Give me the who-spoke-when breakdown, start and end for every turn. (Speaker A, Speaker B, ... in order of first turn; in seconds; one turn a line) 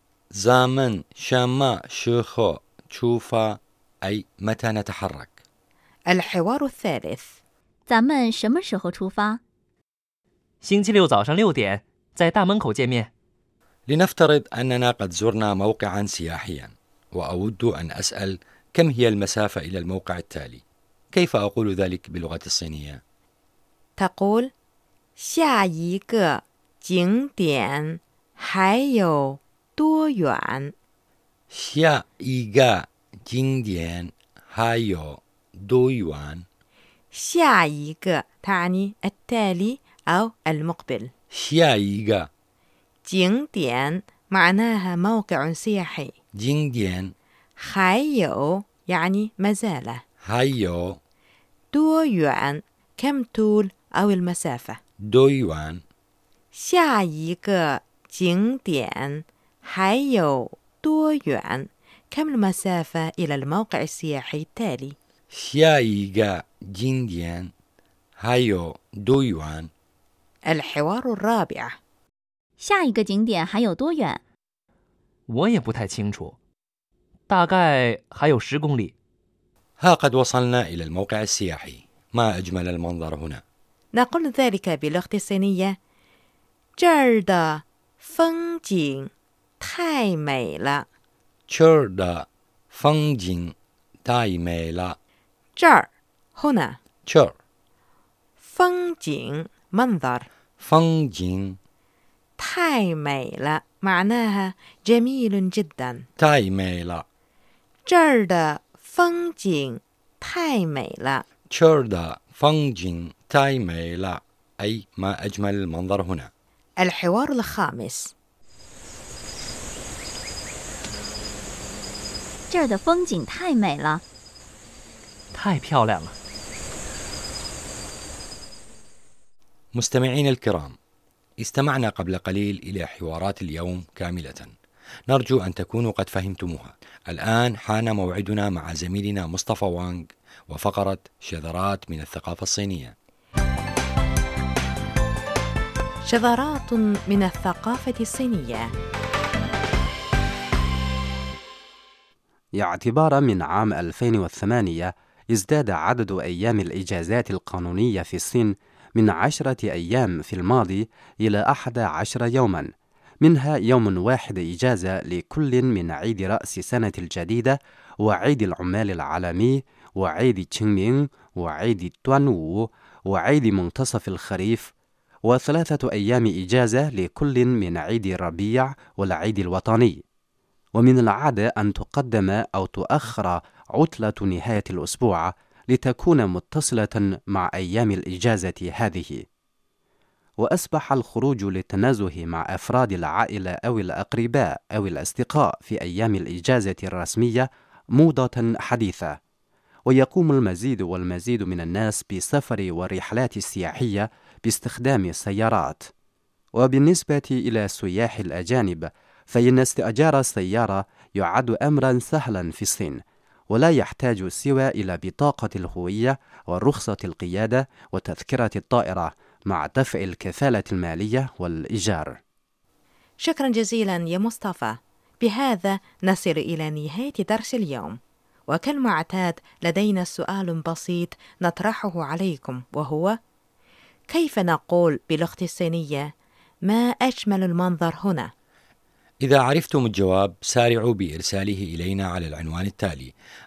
Speaker A: 0.3-5.4
Speaker B: 6.1-7.3
Speaker C: 7.9-9.4
Speaker D: 10.6-13.1
Speaker A: 13.9-23.0
Speaker B: 24.0-24.5
Speaker B: 25.2-30.7
Speaker A: 31.5-36.5
Speaker B: 37.1-41.1
Speaker A: 41.3-42.3
Speaker B: 43.1-46.1
Speaker A: 46.3-47.1
Speaker B: 47.6-50.0
Speaker A: 50.2-51.0
Speaker B: 51.7-54.8
Speaker A: 55.0-55.8
Speaker B: 56.5-65.0
Speaker A: 65.3-67.5
Speaker A: 68.2-69.7
Speaker B: 70.5-71.8
Speaker C: 72.6-74.2
Speaker D: 75.3-76.4
Speaker D: 77.3-78.9
Speaker A: 79.8-83.4
Speaker B: 83.9-85.8
Speaker B: 86.8-90.9
Speaker A: 91.5-95.0
Speaker B: 95.6-96.8
Speaker A: 97.1-97.3
Speaker B: 98.4-100.3
Speaker A: 100.6-101.6
Speaker B: 102.4-106.1
Speaker A: 106.2-107.0
Speaker B: 107.9-111.2
Speaker A: 111.5-116.3
Speaker B: 116.8-118.1
Speaker C: 122.5-124.0
Speaker D: 125.3-126.2
Speaker A: 129.7-130.8
Speaker A: 131.4-134.5
Speaker A: 135.1-142.9
Speaker B: 146.1-148.7
Speaker E: 152.6-162.7
Speaker E: 163.2-174.7
Speaker E: 175.3-180.0
Speaker E: 180.8-189.2
Speaker E: 190.4-199.2
Speaker E: 199.9-205.9
Speaker E: 206.6-222.2
Speaker B: 223.2-233.2
Speaker B: 234.1-236.1
Speaker B: 236.7-238.3
Speaker A: 239.2-243.1